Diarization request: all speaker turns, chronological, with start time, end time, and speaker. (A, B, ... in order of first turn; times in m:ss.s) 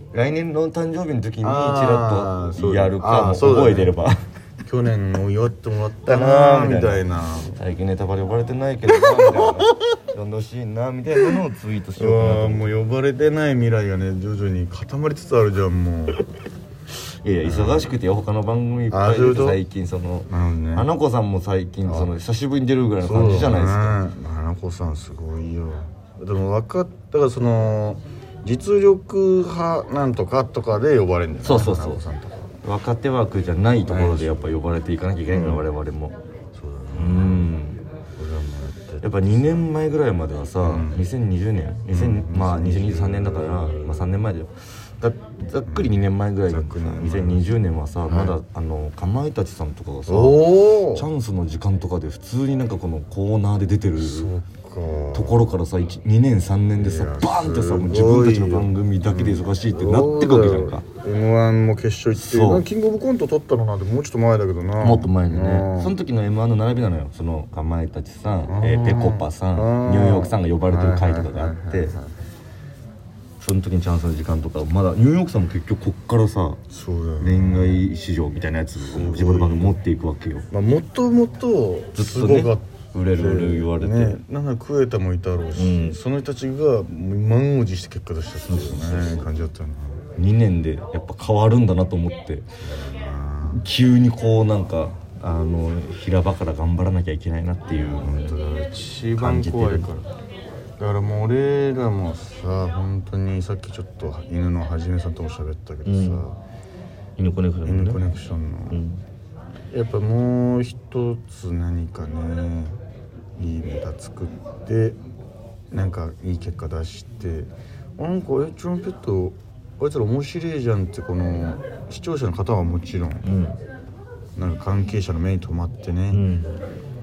0:00.1-0:04.2 A
0:01.4-0:03.9 B
0:04.6-0:07.6 B
0:06.0-0:12.7 A
0:09.0-0:09.4 B
0:12.0-0:16.2 B
0:17.2-0:24.0 A
0:17.4-0:17.9 B
0:18.9-0:19.6 B
0:20.3-0:20.9 B
0:21.8-0:22.1 B
0:23.0-0:32.4 B
0:31.4-0:32.0 A
0:32.6-0:36.2 A
0:33.8-0:34.5 B
0:35.3-0:35.6 B
0:36.5-0:37.5 B
0:36.9-0:37.8 A
0:38.2-0:39.7 B
0:39.0-0:54.3 A
0:40.6-0:41.0 B
0:41.9-0:44.2 B
0:45.6-0:45.9 B
0:46.5-0:47.5 B
0:48.0-0:48.4 B
0:50.1-0:51.1 B
0:53.9-0:55.4 B
0:55.1-1:00.8 A
0:56.8-1:05.9 B
1:02.1-1:02.6 A
1:04.8-1:11.9 A
1:08.5-1:12.1 B
1:13.4-1:16.6 A
1:16.7-1:17.8 B
1:17.2-1:20.4 A
1:18.8-1:19.8 B
1:20.5-1:30.0 B
1:21.9-1:24.2 A
1:25.5-1:26.0 A
1:28.5-1:29.3 A
1:30.2-1:32.4 A
1:32.6-1:33.6 B
1:33.4-1:38.4 A
1:37.8-1:40.1 B
1:39.2-1:39.9 A
1:40.8-1:46.4 B
1:45.8-1:46.2 A
1:47.2-1:48.1 A
1:47.6-1:48.8 B
1:48.7-1:49.0 A
1:49.7-1:52.8 B
1:53.4-1:55.0 B
1:55.7-2:03.2 B
2:03.2-2:03.6 A
2:04.4-2:06.2 B
2:06.1-2:06.5 A